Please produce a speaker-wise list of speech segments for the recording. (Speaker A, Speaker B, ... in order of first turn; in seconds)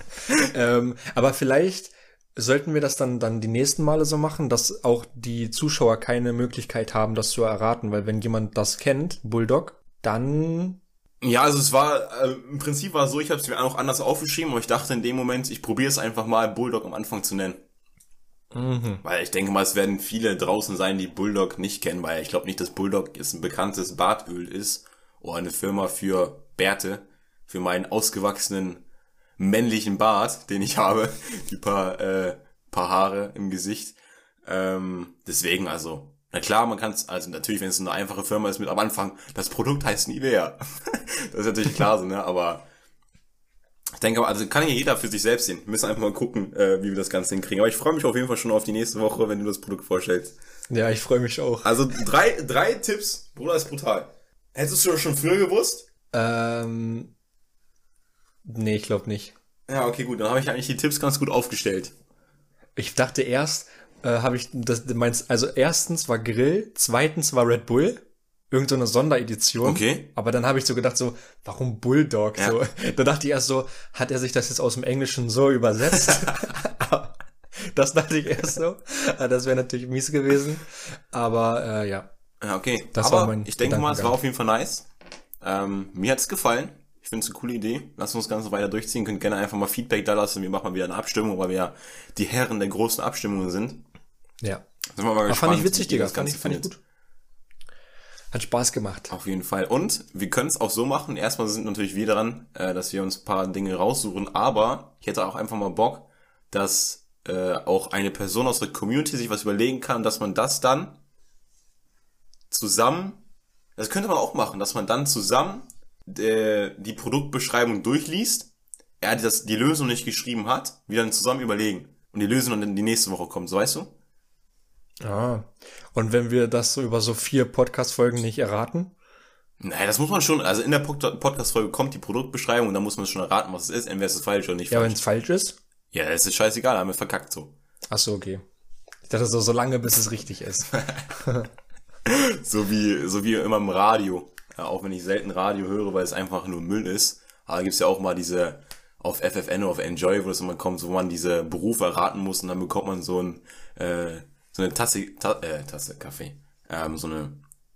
Speaker A: 0.3-10.8, 18.5-19.0, 50.7-52.1, 56.1-57.1, 58.5-59.4, 62.8-82.1, 82.9-84.2, 95.3-96.8, 98.3-99.1, 125.0-128.9, 134.7-135.6, 137.9-138.4, 139.1-141.5
Speaker B: 11.2-17.6, 19.0-28.8, 29.4-42.7, 44.0-50.4, 51.6-55.9, 59.7-61.9, 69.6-70.1, 82.4-84.9, 85.4-93.8, 95.0-96.7, 99.1-111.0, 112.5-113.2, 113.8-118.5, 119.0-123.9, 129.6-135.0, 135.9-137.5, 142.1-157.4